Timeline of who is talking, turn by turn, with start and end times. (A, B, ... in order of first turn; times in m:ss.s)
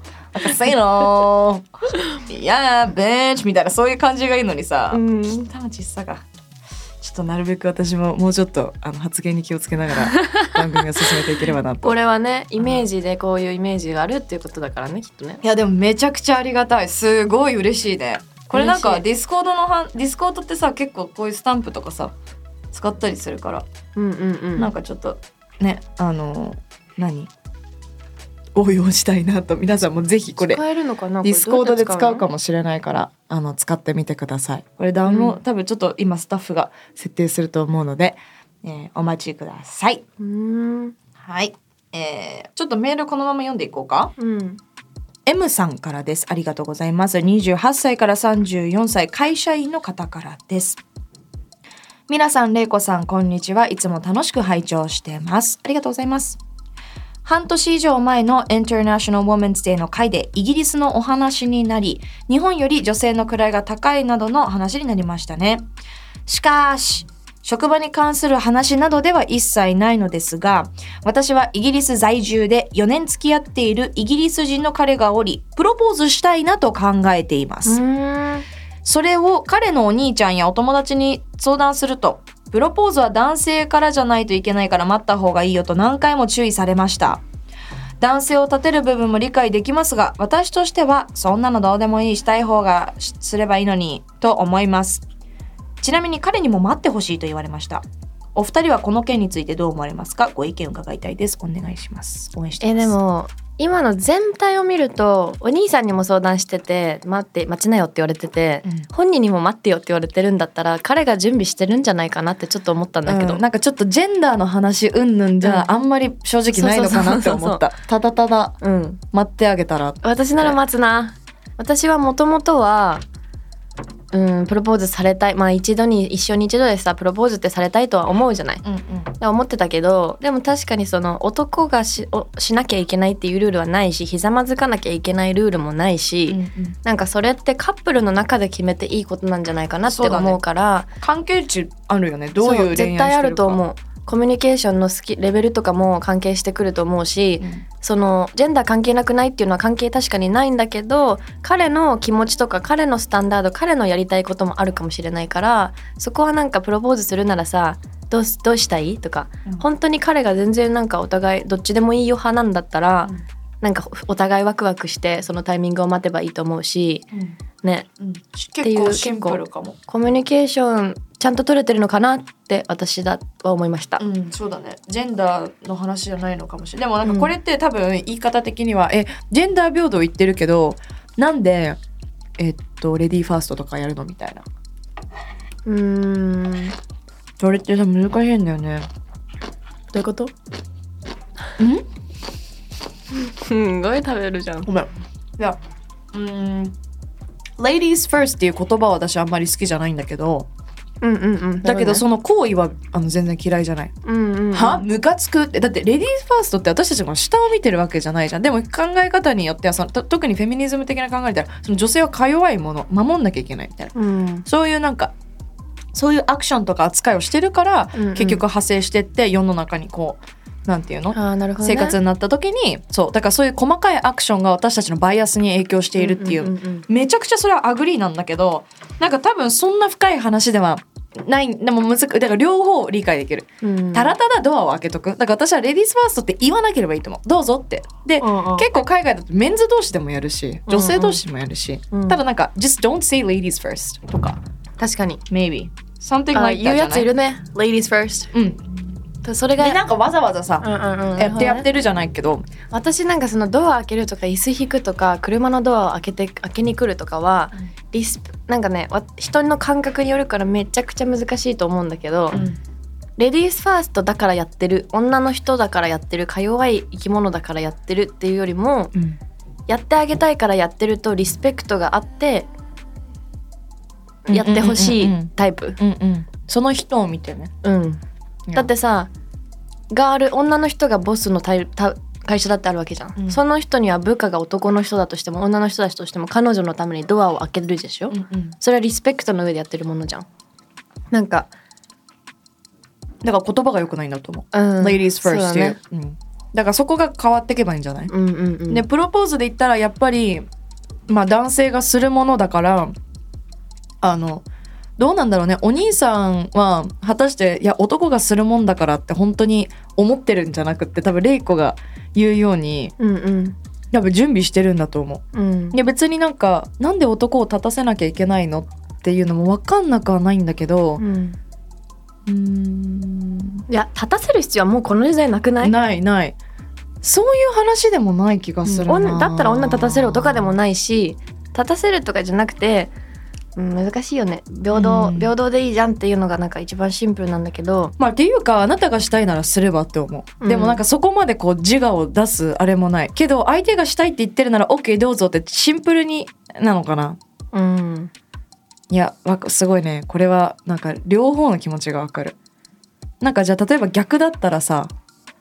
0:00.3-0:06.2 A
0:04.9-0:05.5 B
0:07.0-0:12.0 A
0:10.2-0:10.5 B
0:11.8-0:15.4 B
0:12.6-0:12.8 A
0:15.4-0:22.1 A
0:18.5-0:19.0 B
0:22.7-0:23.6 A
0:24.0-0:24.7 B
0:24.6-0:27.3 A
0:28.5-0:30.6 A
0:30.4-0:32.2 B
0:31.2-0:40.0 A
0:35.0-0:35.4 B
0:40.2-0:40.9 B
0:41.2-0:44.1 A
0:44.2-0:44.6 B
0:45.2-0:50.8 A
0:52.1-0:56.4 A
0:57.2-1:05.7 A
1:06.2-1:17.8 A
1:17.6-1:18.4 B
1:18.8-1:27.2 A
1:28.0-1:35.0 A
1:35.8-1:43.0 A
1:42.6-1:53.4 B
1:53.0-1:58.6 A
1:55.4-1:55.7 B
1:56.5-1:57.6 B
1:58.6-1:59.0 B
1:59.1-2:00.6 A
2:00.0-2:03.0 B
2:04.1-2:08.6 B
2:08.6-2:09.1 A
2:09.2-2:20.9 B
2:16.3-2:16.8 A
2:19.8-2:20.4 A
2:21.0-2:23.6 A
2:22.4-2:47.0 B
2:27.4-2:27.6 A
2:47.6-2:47.9 B
2:48.0-2:49.8 A
2:48.6-2:54.0 B
2:54.0-3:01.8 A
2:57.0-2:57.3 B
3:02.4-3:04.4 A
3:05.6-3:06.7 B
3:07.4-3:08.9 A
3:09.9-3:10.3 B
3:11.6-3:11.9 A
3:13.1-3:14.7 B
3:14.6-3:15.6 A
3:16.1-3:16.8 A
3:17.6-3:20.5 A
3:21.0-3:22.0 B
3:21.6-3:23.9 A
3:24.0-3:24.8 B
3:24.5-3:33.9 A
3:33.9-3:34.4 B
3:34.4-3:35.1 A
3:35.9-4:04.4 A
3:37.9-3:38.4 B
3:41.1-3:42.0 B
3:46.0-3:46.8 B
3:53.6-3:54.1 B
3:58.2-3:58.7 B
4:00.7-4:01.2 B
4:01.9-4:02.2 B
4:04.8-4:05.2 B
4:05.3-4:07.1 A
4:06.3-4:08.3 B
4:08.3-4:08.7 A
4:09.2-4:09.8 B
4:09.6-4:12.4 A
4:10.6-4:11.7 B
4:12.7-4:22.4 B
4:22.3-4:22.6 A
4:23.2-4:28.9 B
4:29.7-4:32.5 B
4:34.2-4:35.8 B
4:34.3-4:37.5 A
4:37.6-4:38.0 B
4:38.5-4:39.1 B
4:39.9-4:50.2 B
4:43.2-4:43.4 A
4:48.1-4:48.6 A
4:51.1-4:51.5 B
4:53.2-4:58.1 A
4:54.5-4:55.8 B
4:58.1-4:58.8 B
4:58.7-5:00.5 A
5:01.1-5:02.9 A
5:04.0-5:04.4 A
5:05.0-5:12.9 A
5:13.0-5:13.6 B
5:13.9-5:21.0 A
5:15.3-5:15.8 B
5:21.0-5:21.4 B
5:22.2-5:23.6 A
5:23.7-5:25.7 B
5:25.6-5:26.4 A
5:27.0-5:30.5 A
5:28.6-5:32.9 B
5:33.6-5:37.9 B
5:34.7-5:35.3 A
5:38.0-5:47.2 A
5:40.4-5:40.8 B
5:47.5-5:48.1 B
5:48.9-5:52.4 A
5:53.2-5:54.9 A